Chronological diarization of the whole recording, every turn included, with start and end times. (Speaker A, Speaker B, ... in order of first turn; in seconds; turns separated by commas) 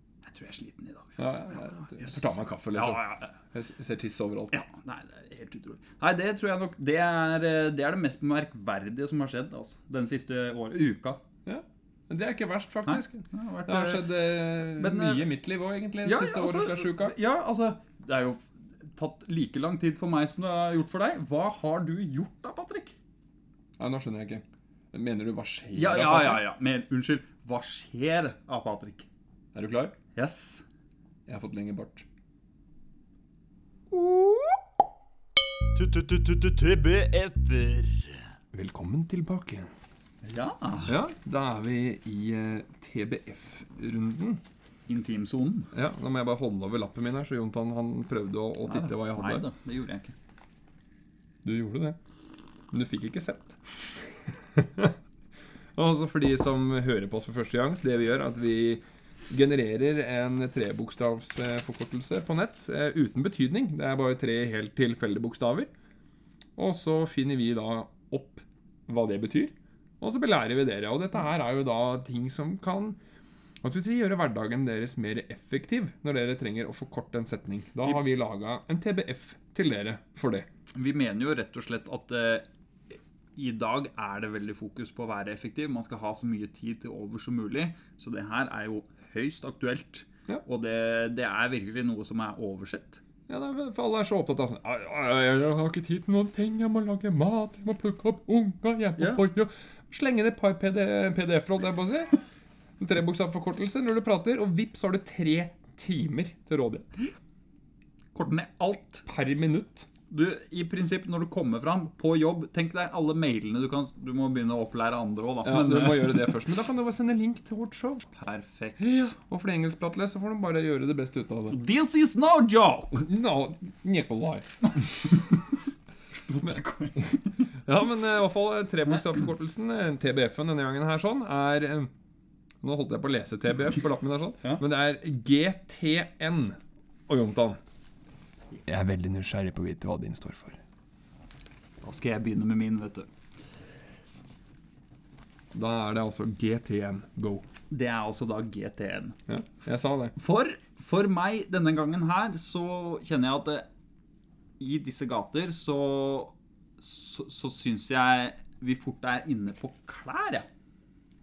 Speaker A: 0.2-3.3, Speaker B: 1.2-4.6, Speaker A: 4.5-11.2, Speaker B: 11.4-17.1, Speaker A: 12.8-15.3, Speaker A: 16.0-23.0, Speaker B: 23.8-26.4, Speaker A: 25.8-29.1, Speaker B: 29.5-30.0, Speaker A: 30.1-30.6, Speaker B: 31.3-32.1, Speaker A: 33.9-34.6, Speaker A: 35.7-38.3, Speaker B: 38.5-39.7, Speaker A: 40.2-41.0, Speaker B: 40.9-44.4, Speaker A: 44.9-45.7, Speaker B: 45.7-49.5, Speaker A: 48.7-50.1, Speaker B: 51.4-52.0, Speaker B: 52.7-55.0, Speaker B: 55.8-65.7, Speaker B: 66.6-73.0, Speaker B: 73.6-80.5, Speaker A: 80.8-82.5, Speaker A: 83.4-93.0, Speaker B: 93.3-102.2, Speaker A: 99.0-99.2, Speaker B: 102.8-107.0, Speaker A: 108.2-109.0, Speaker B: 109.1-109.9, Speaker A: 110.1-116.4, Speaker B: 115.4-118.1, Speaker A: 118.2-119.2, Speaker B: 118.8-121.6, Speaker A: 121.5-123.1, Speaker B: 122.9-124.8, Speaker A: 126.1-127.3, Speaker B: 127.7-131.9, Speaker B: 132.6-137.6, Speaker B: 138.7-140.6, Speaker A: 141.8-143.1, Speaker B: 145.5-147.4, Speaker A: 147.7-149.2, Speaker B: 149.3-150.2, Speaker A: 150.2-153.7, Speaker A: 154.6-160.5